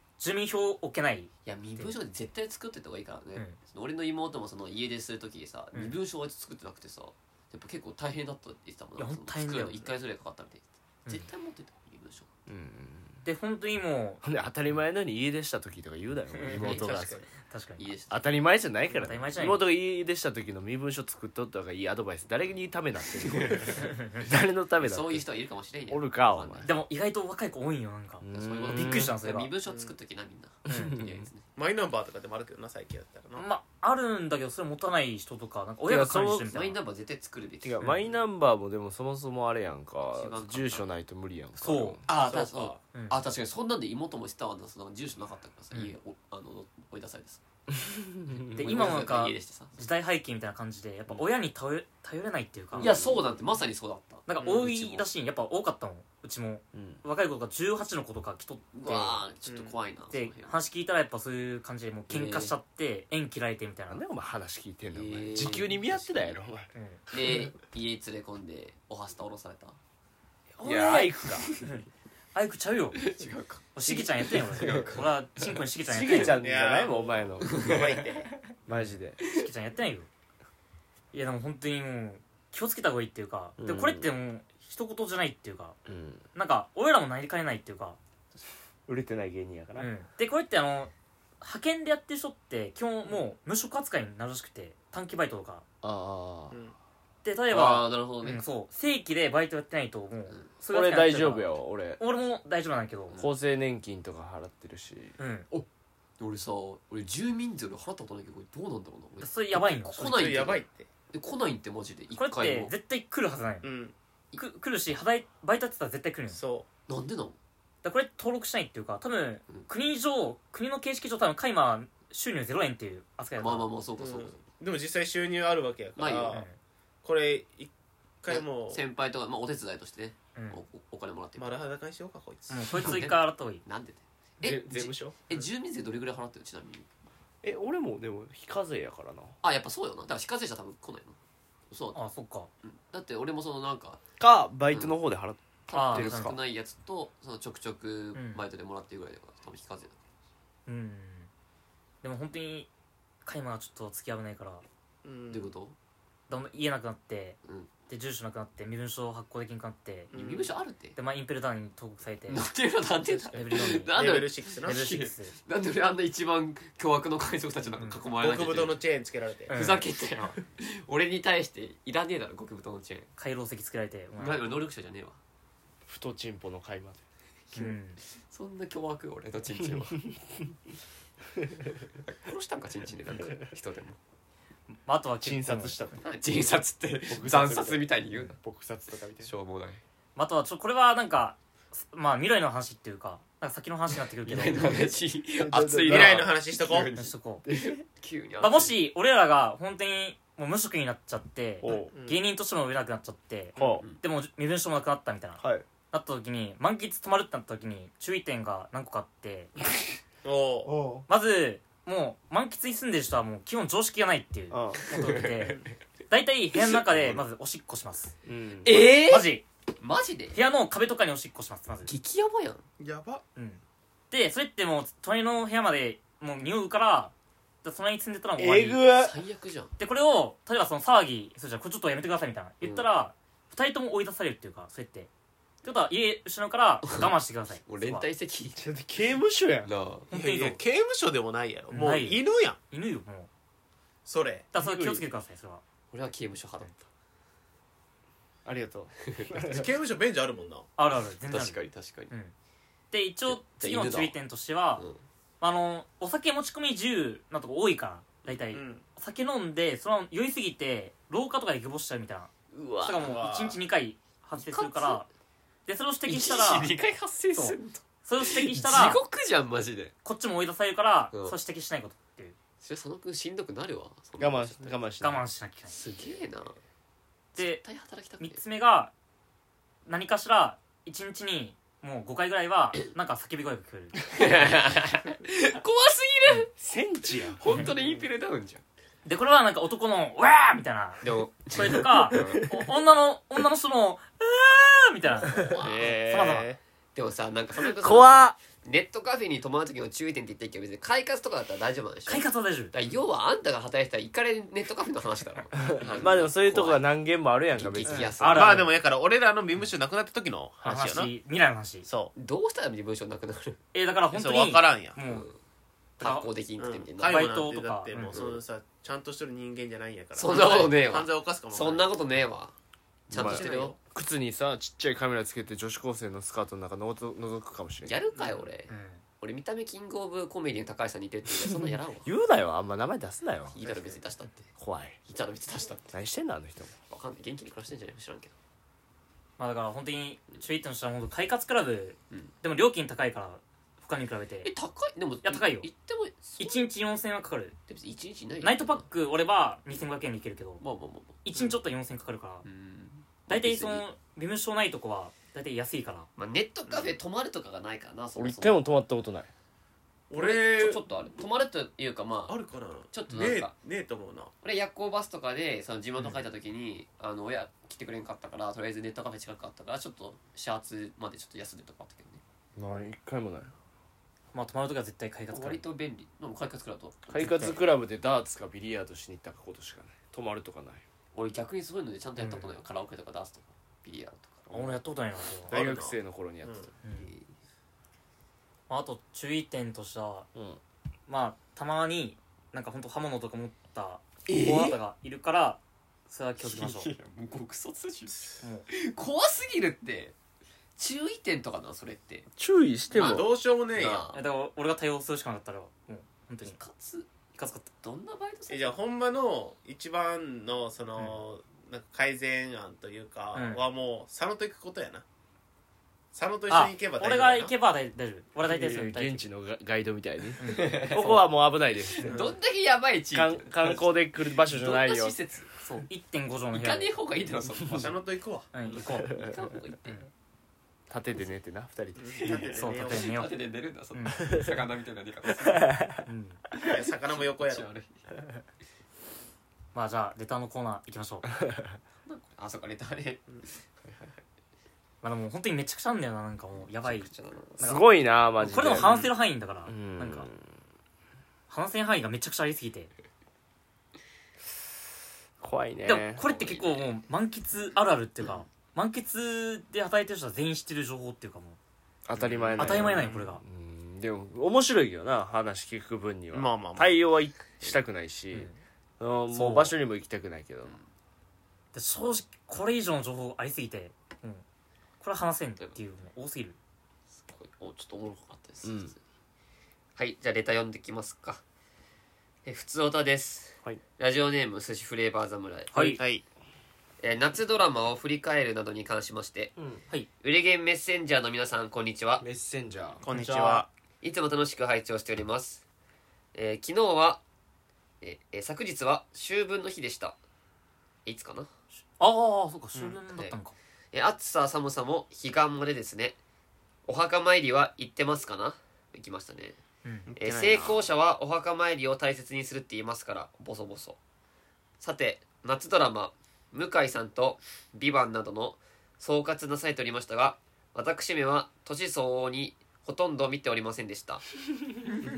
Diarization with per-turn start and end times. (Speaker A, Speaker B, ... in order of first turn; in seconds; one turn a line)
Speaker A: 0.2-1.9
Speaker B: 1.4-12.3
Speaker A: 9.0-9.9
Speaker C: 12.5-13.2
Speaker A: 13.2-14.2
Speaker C: 14.2-17.2
Speaker A: 16.3-17.9
Speaker B: 16.5-17.1
Speaker D: 16.6-17.2
Speaker B: 17.8-18.3
Speaker C: 18.1-25.2
Speaker A: 18.9-19.7
Speaker B: 23.2-23.7
Speaker A: 23.8-24.3
Speaker B: 24.8-26.8
Speaker C: 25.9-26.7
Speaker A: 26.6-29.5
Speaker C: 28.2-29.1
Speaker B: 28.3-31.4
Speaker D: 29.6-29.9
Speaker C: 30.7-31.2
Speaker A: 30.7-31.0
Speaker D: 31.6-33.4
Speaker A: 33.4-36.8
Speaker C: 35.8-36.5
Speaker B: 36.4-37.9
Speaker C: 37.6-42.0
Speaker B: 40.1-40.9
Speaker A: 41.6-43.2
Speaker B: 42.0-47.4
Speaker D: 42.1-42.8
Speaker C: 47.7-48.8
Speaker B: 48.5-49.7
Speaker A: 48.5-53.0
Speaker B: 52.8-55.0
Speaker C: 52.8-53.2
Speaker A: 54.3-59.2
Speaker C: 56.7-57.0
Speaker B: 58.7-60.5
Speaker D: 59.5-59.8
Speaker A: 60.1-64.0
Speaker B: 62.1-62.5
Speaker C: 63.9-67.5
Speaker B: 64.9-66.4
Speaker A: 66.7-67.0
Speaker B: 67.1-69.8
Speaker C: 70.5-71.5
Speaker A: 70.6-73.0
Speaker B: 73.0-75.5
Speaker A: 73.7-76.4
Speaker C: 73.8-74.9
Speaker C: 75.9-77.8
Speaker D: 76.3-78.3
Speaker B: 77.4-78.0
Speaker C: 78.6-79.2
Speaker A: 78.7-80.1
Speaker B: 79.2-79.5
Speaker A: 81.1-85.8
Speaker C: 83.6-84.1
Speaker C: 85.8-86.2
Speaker A: 86.3-88.0
Speaker C: 88.9-89.9
Speaker A: 89.8-95.6
Speaker C: 95.8-96.5
Speaker D: 96.5-96.8
Speaker A: 97.2-103.2
Speaker B: 97.5-98.4
Speaker C: 100.7-102.0
Speaker C: 103.2-105.1
Speaker A: 105.2-105.5
Speaker B: 106.2-112.7
Speaker A: 109.2-110.2
Speaker D: 110.0-110.9
Speaker A: 112.2-113.7
Speaker D: 113.6-113.9
Speaker A: 114.3-116.4
Speaker D: 116.3-116.7
Speaker B: 116.9-117.4
Speaker A: 117.8-123.7
Speaker B: 123.4-124.4
Speaker D: 124.0-126.5
Speaker B: 126.0-126.4
Speaker A: 126.3-126.6
Speaker D: 127.0-127.7
Speaker D: 128.2-128.8
Speaker B: 128.3-131.6
Speaker A: 130.3-130.6
Speaker D: 131.4-132.6
Speaker A: 132.5-133.6
Speaker B: 132.7-136.9
Speaker C: 134.4-135.2
Speaker C: 137.4-139.3
Speaker B: 139.4-141.2
Speaker B: 141.7-142.0
Speaker A: 141.9-142.5
Speaker B: 142.6-144.0
Speaker C: 144.2-146.4
Speaker B: 144.7-144.9
Speaker B: 145.7-150.0
Speaker A: 145.7-146.3
Speaker A: 148.1-148.4
Speaker A: 150.7-151.3
Speaker A: 152.0-152.7
Speaker A: 153.2-154.6
Speaker D: 155.0-155.5
Speaker B: 155.3-155.7
Speaker A: 156.3-157.4
Speaker B: 157.4-157.7
Speaker A: 157.9-160.1
Speaker B: 160.1-161.0
Speaker D: 160.1-160.5
Speaker A: 160.9-162.4
Speaker B: 162.3-168.8
Speaker A: 163.0-165.3
Speaker D: 163.9-164.8
Speaker A: 167.8-168.0
Speaker D: 168.2-169.6
Speaker A: 169.5-169.8
Speaker B: 169.5-173.1
Speaker A: 173.2-174.4
Speaker B: 174.2-175.2
Speaker C: 175.8-177.0
Speaker A: 177.5-178.0
Speaker B: 178.3-180.0
Speaker B: 181.8-184.0
Speaker A: 184.7-185.8
Speaker C: 185.2-186.0
Speaker B: 186.0-188.3
Speaker C: 187.1-189.3
Speaker B: 189.2-189.8
Speaker A: 190.2-194.6
Speaker B: 194.2-198.8
Speaker C: 195.4-196.3
Speaker D: 195.8-196.9
Speaker A: 196.9-197.4
Speaker C: 197.4-197.8
Speaker A: 198.4-209.5
Speaker C: 201.6-201.9
Speaker D: 201.7-202.2
Speaker D: 203.6-203.8
Speaker C: 203.6-203.8
Speaker C: 205.4-205.6
Speaker D: 210.2-210.7
Speaker C: 210.6-211.1
Speaker A: 211.1-218.1
Speaker C: 214.5-214.8
Speaker B: 214.9-215.7
Speaker B: 216.6-217.2
Speaker C: 218.2-218.9
Speaker B: 218.6-220.4
Speaker A: 218.7-219.4
Speaker A: 220.3-221.9
Speaker B: 221.9-222.6
Speaker D: 222.8-223.2
Speaker A: 223.3-227.1
Speaker A: 227.6-228.8
Speaker C: 228.4-229.2
Speaker B: 228.9-229.7
Speaker A: 229.8-235.1
Speaker A: 235.6-238.1
Speaker B: 236.8-237.1
Speaker B: 237.7-238.7
Speaker C: 238.6-239.7
Speaker B: 239.6-240.1
Speaker A: 240.1-240.6
Speaker D: 240.1-242.6
Speaker A: 241.7-243.3
Speaker D: 244.1-244.5
Speaker A: 244.5-245.6
Speaker C: 244.6-245.0
Speaker B: 245.9-246.8
Speaker C: 248.4-249.7
Speaker B: 249.0-249.5
Speaker D: 249.4-250.7
Speaker A: 250.8-252.3
Speaker B: 251.3-252.1
Speaker A: 252.9-254.8
Speaker B: 253.3-254.1
Speaker A: 255.4-262.3
Speaker D: 258.5-258.8
Speaker B: 262.5-263.2
Speaker A: 262.8-265.1
Speaker D: 263.0-263.6
Speaker B: 264.4-265.0
Speaker A: 265.6-266.7
Speaker B: 266.1-269.9
Speaker A: 267.3-269.0
Speaker A: 270.0-272.4
Speaker B: 272.6-274.8
Speaker C: 274.2-275.2
Speaker A: 275.0-275.8
Speaker B: 275.7-276.6
Speaker B: 277.3-278.4
Speaker A: 277.4-277.6
Speaker A: 278.2-278.9
Speaker A: 279.9-284.1
Speaker B: 284.1-286.5
Speaker C: 286.6-287.4
Speaker B: 287.2-288.6
Speaker D: 287.8-288.0
Speaker A: 289.0-296.5
Speaker B: 291.0-292.4
Speaker C: 292.1-292.4
Speaker B: 295.3-296.0
Speaker C: 295.4-296.6
Speaker B: 296.9-306.8
Speaker C: 297.6-298.4
Speaker A: 302.1-302.7
Speaker C: 305.5-308.3
Speaker B: 307.6-308.7
Speaker A: 307.9-308.7
Speaker D: 308.3-311.1
Speaker A: 310.6-311.9
Speaker D: 311.8-312.1
Speaker B: 312.1-313.6
Speaker A: 313.7-315.3
Speaker D: 314.1-315.0
Speaker B: 315.1-315.4
Speaker A: 316.0-316.3
Speaker B: 316.0-317.3
Speaker D: 316.6-321.9
Speaker A: 317.0-318.2
Speaker B: 318.1-318.4
Speaker B: 320.1-322.5
Speaker B: 323.1-323.7
Speaker C: 323.1-328.0
Speaker D: 323.1-323.8
Speaker B: 327.8-332.1
Speaker D: 328.2-328.4
Speaker A: 328.7-329.0
Speaker C: 332.0-333.6
Speaker B: 333.5-334.5
Speaker D: 333.6-333.9
Speaker C: 334.6-335.0
Speaker B: 335.1-335.9
Speaker C: 335.9-336.7
Speaker B: 336.9-338.3
Speaker A: 339.4-344.5
Speaker B: 344.4-346.7
Speaker A: 345.2-345.7
Speaker A: 346.4-347.6
Speaker B: 347.7-348.9
Speaker A: 348.4-350.6
Speaker B: 350.6-351.2
Speaker A: 351.2-352.4
Speaker B: 352.4-353.8
Speaker A: 353.3-356.1
Speaker B: 356.2-358.6
Speaker D: 356.7-357.0
Speaker C: 358.1-359.3
Speaker D: 360.1-360.8
Speaker B: 360.1-362.4
Speaker D: 362.3-364.3
Speaker B: 362.9-363.5
Speaker B: 364.4-372.2
Speaker C: 372.6-373.5
Speaker A: 374.3-375.6
Speaker B: 375.3-377.2
Speaker C: 377.1-380.8
Speaker A: 377.1-377.6
Speaker B: 381.1-384.8
Speaker A: 382.2-382.6
Speaker A: 384.5-385.5
Speaker D: 385.5-386.7
Speaker C: 385.5-386.7
Speaker A: 386.8-387.1
Speaker B: 386.9-387.3
Speaker A: 388.7-390.3
Speaker C: 390.3-390.6
Speaker A: 391.1-396.9
Speaker B: 394.3-394.8
Speaker B: 396.4-400.1
Speaker A: 398.4-398.7
Speaker B: 400.8-402.3
Speaker C: 402.4-403.3
Speaker D: 402.9-404.1
Speaker B: 402.9-404.2
Speaker A: 404.1-406.6
Speaker B: 406.4-407.1
Speaker A: 407.4-407.7
Speaker B: 407.7-408.8
Speaker D: 408.5-415.0
Speaker A: 413.3-413.6
Speaker D: 416.1-417.5
Speaker A: 416.5-419.2
Speaker C: 418.5-422.2
Speaker A: 420.4-420.9
Speaker B: 420.5-425.5
Speaker D: 422.1-422.3
Speaker C: 423.1-425.1
Speaker A: 425.6-426.9
Speaker B: 426.5-428.0
Speaker D: 427.7-428.5
Speaker A: 428.5-429.2
Speaker B: 428.7-430.0
Speaker C: 430.9-432.5
Speaker D: 432.0-433.1
Speaker B: 432.2-435.7
Speaker A: 432.6-433.4
Speaker A: 433.9-434.4
Speaker C: 435.4-435.9
Speaker A: 436.1-436.4
Speaker D: 436.6-437.6
Speaker B: 436.6-437.9
Speaker A: 439.7-441.3
Speaker B: 442.0-444.2
Speaker A: 445.0-447.8
Speaker B: 446.6-447.7
Speaker C: 447.6-448.9
Speaker A: 448.4-450.3
Speaker B: 448.8-449.0
Speaker C: 449.6-450.5
Speaker A: 451.5-452.9
Speaker C: 455.4-456.2
Speaker A: 455.8-461.6
Speaker B: 456.2-456.9
Speaker C: 462.1-470.8
Speaker B: 462.1-463.0
Speaker A: 462.6-463.4
Speaker D: 466.3-467.0
Speaker A: 468.3-468.6
Speaker A: 469.3-469.7
Speaker A: 471.7-474.4
Speaker A: 475.0-476.6
Speaker B: 477.1-479.0
Speaker C: 478.6-478.9
Speaker B: 480.0-481.4
Speaker B: 482.4-485.7
Speaker A: 485.7-486.0
Speaker D: 485.9-486.2
Speaker B: 487.0-489.5
Speaker C: 489.6-489.8
Speaker B: 490.2-492.2
Speaker C: 492.2-493.6
Speaker D: 493.0-493.7
Speaker B: 494.0-495.6
Speaker B: 496.3-497.2
Speaker B: 498.0-500.1
Speaker B: 501.1-501.5
Speaker A: 502.0-503.6
Speaker B: 503.9-506.2
Speaker B: 506.9-509.6
Speaker A: 509.8-510.1
Speaker D: 510.1-510.8
Speaker B: 510.1-514.0
Speaker B: 514.8-524.2